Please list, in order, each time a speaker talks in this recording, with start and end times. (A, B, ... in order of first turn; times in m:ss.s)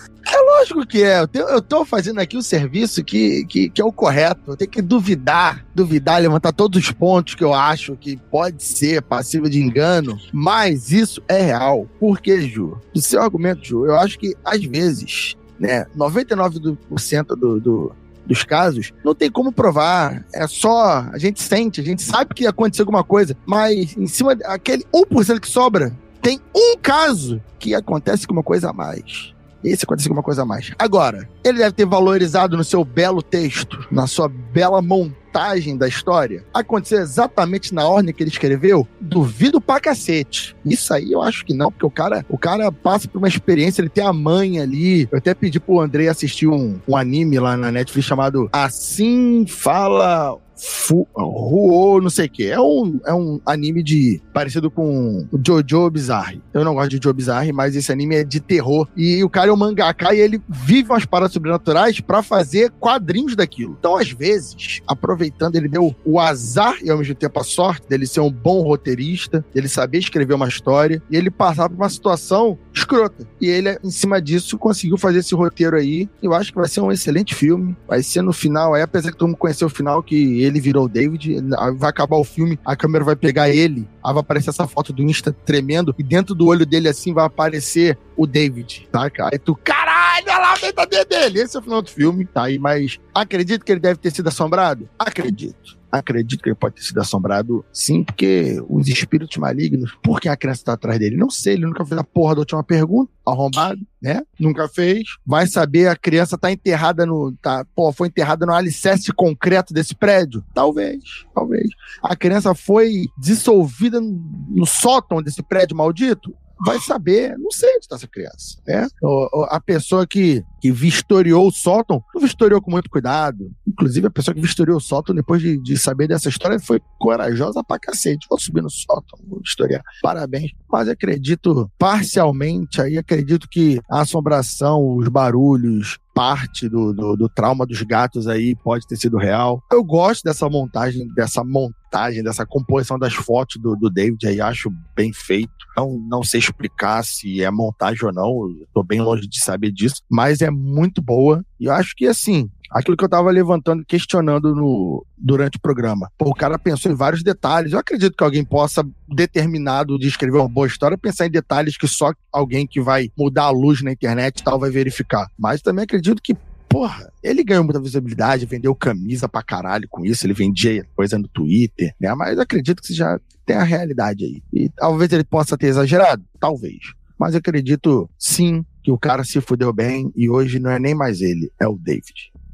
0:00.3-3:02.3 A